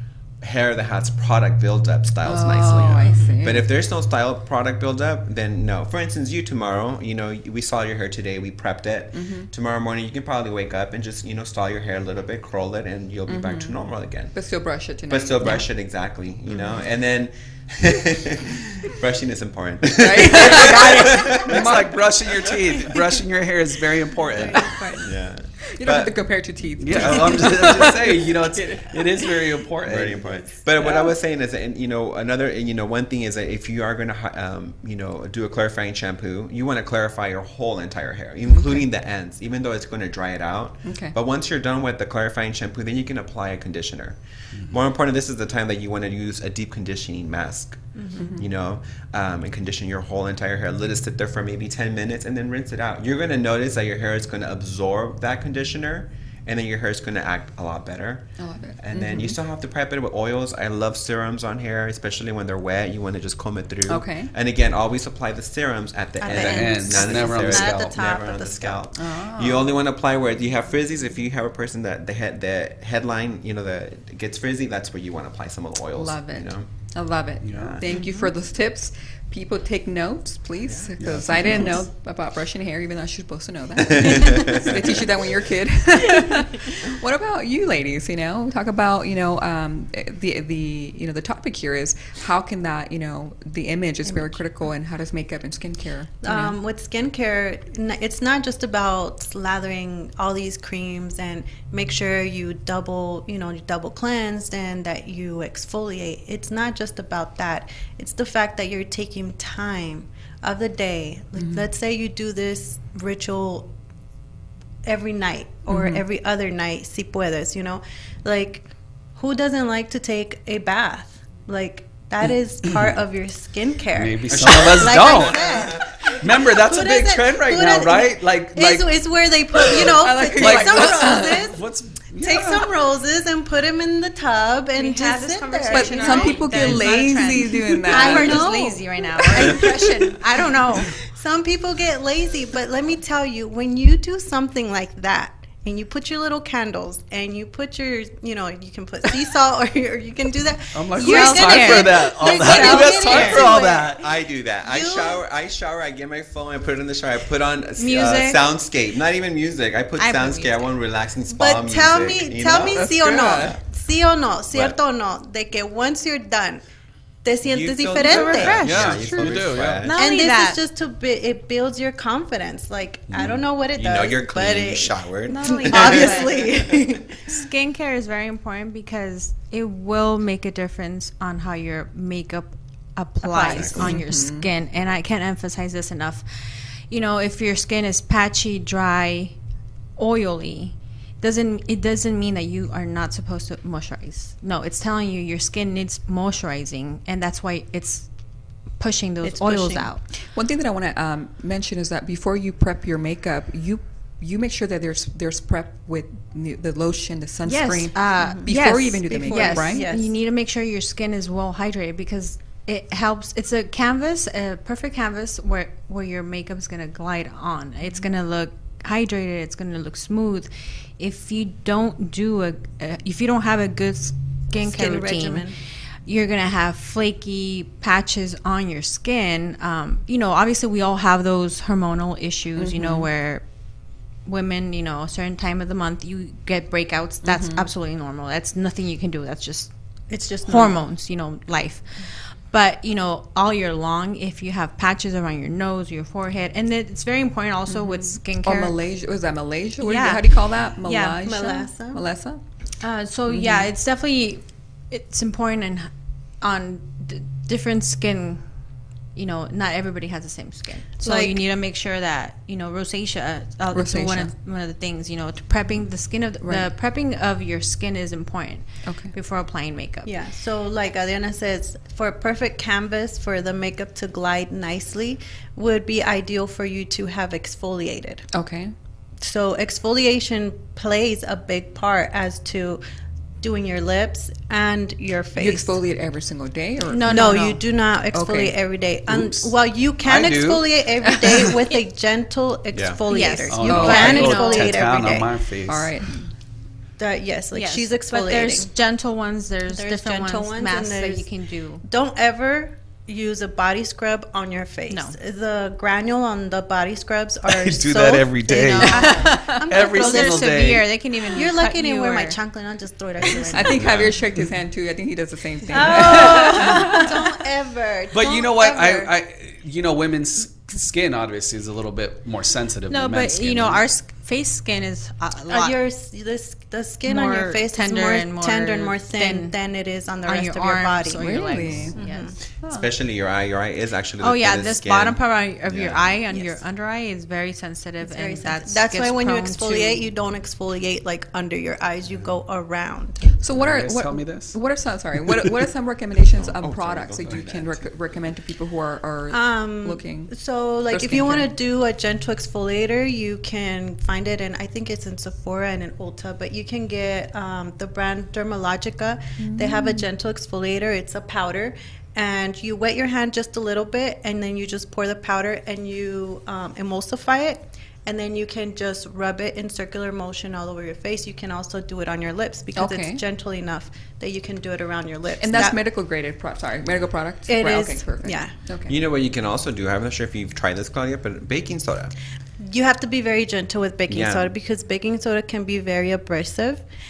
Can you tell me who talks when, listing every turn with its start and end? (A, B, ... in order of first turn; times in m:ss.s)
0:00.4-0:14.3 A
0:02.2-0:03.7 B
0:09.1-0:09.5 B
0:13.3-0:13.7 B
0:14.3-0:15.6 B
0:15.1-0:22.7 A
0:16.5-0:16.8 B
0:19.9-0:21.8 B
0:20.6-0:24.8 C
0:24.3-0:26.1 A
0:24.4-0:25.0 D
0:25.7-0:29.3 B
0:26.8-0:31.1 C
0:26.9-0:27.9 A
0:29.8-0:58.3 A
0:38.5-0:38.8 B
0:40.8-0:41.2 B
0:48.0-0:48.2 D
0:48.2-0:48.4 B
0:58.4-0:59.4 B
0:58.8-1:16.7 A
1:03.9-1:04.3 B
1:06.2-1:08.8 D
1:06.3-1:07.9 C
1:09.0-1:09.7 B
1:15.9-1:36.6 B
1:17.4-1:17.8 C
1:17.6-1:17.8 A
1:17.9-1:18.3 E
1:21.0-1:21.8 C
1:23.8-1:25.0 A
1:36.2-1:53.7 D
1:51.4-1:51.7 B
1:54.8-2:11.6 D
1:55.7-1:56.0 B
2:03.9-2:08.9 C
2:04.3-2:06.1 A
2:09.6-2:11.5 B
2:09.7-2:12.7 C
2:12.2-2:20.2 D
2:14.8-2:20.9 E
2:15.7-2:18.5 B
2:20.8-2:34.0 D
2:30.7-2:34.0 C
2:31.0-2:33.8 E
2:33.0-2:43.6 A
2:34.6-2:35.2 D
2:37.8-2:38.5 E
2:40.0-2:40.6 E
2:41.3-2:46.6 D
2:42.7-2:43.6 B
2:47.2-2:48.7 D
2:47.4-2:49.9 A
2:48.2-2:48.8 E
2:48.6-2:49.9 C
2:48.9-2:49.6 B
2:49.8-2:50.6 E
2:49.9-2:57.2 D
2:53.1-2:53.4 C
2:53.8-2:56.4 A
2:55.3-2:56.5 E
2:57.2-3:09.4 E
3:03.2-3:03.9 D
3:03.5-3:03.9 A
3:03.8-3:04.5 B
3:10.0-3:18.1 E
3:18.8-3:20.0 E
3:19.2-3:19.9 D
3:20.3-3:29.8 B
3:27.4-3:45.4 E
3:29.1-3:30.1 D
3:44.6-3:45.6 D
3:46.0-3:53.4 E
3:52.6-3:53.1 B
3:54.2-3:59.7 E
3:57.2-3:57.6 B
4:00.1-4:00.8 D
4:00.4-4:08.7 E
4:07.7-4:12.4 B
4:09.8-4:10.2 E
4:10.8-4:11.2 E
4:11.2-4:12.0 D
4:12.8-4:15.9 E
4:13.3-4:13.7 B
4:16.4-4:18.4 E
4:19.1-4:30.1 E
4:21.0-4:21.4 D
4:23.7-4:24.3 B
4:26.4-4:26.7 B
4:28.8-4:29.1 B
4:30.0-4:38.3 D
4:38.3-4:38.7 B
4:39.2-4:42.8 D
4:43.4-4:45.8 D
4:45.4-4:47.4 B
4:46.9-4:47.6 E
4:46.9-4:55.3 D
4:48.1-4:48.6 B
4:49.1-4:50.7 C
4:51.1-4:51.5 B
4:51.2-4:51.5 C
4:52.7-4:53.0 A
4:53.1-4:54.7 E
4:53.5-4:55.9 C
4:53.7-4:54.2 B
4:55.7-4:56.2 B
4:57.0-4:58.7 D
4:57.5-5:01.8 E
4:59.7-5:01.3 D
5:01.8-5:14.0 D
5:04.9-5:05.2 E
5:07.4-5:10.8 C
5:08.4-5:12.4 E
5:08.8-5:09.6 B
5:13.4-5:14.5 C
5:13.5-5:17.2 B
5:15.7-5:19.1 D
5:15.9-5:17.1 E
5:18.1-5:23.8 C
5:22.9-5:25.8 E
5:25.5-5:31.2 D
5:27.1-5:29.6 E
5:30.2-5:32.3 E
5:31.2-5:32.0 B
5:31.9-5:32.4 D
5:32.5-5:36.1 A
5:32.6-5:32.9 B
5:34.2-5:40.1 E
5:36.3-5:36.6 D
5:38.0-5:43.3 D
5:43.3-5:50.3 B
5:43.5-5:44.6 C
5:46.4-5:47.9 A
5:49.3-6:15.8 D
5:50.9-5:51.5 B
5:59.4-6:00.0 B
6:12.7-6:13.2 B
6:15.4-6:19.0 B
6:17.5-6:18.5 D
6:18.8-6:22.1 A
6:22.6-6:26.8 D
6:24.1-6:24.5 A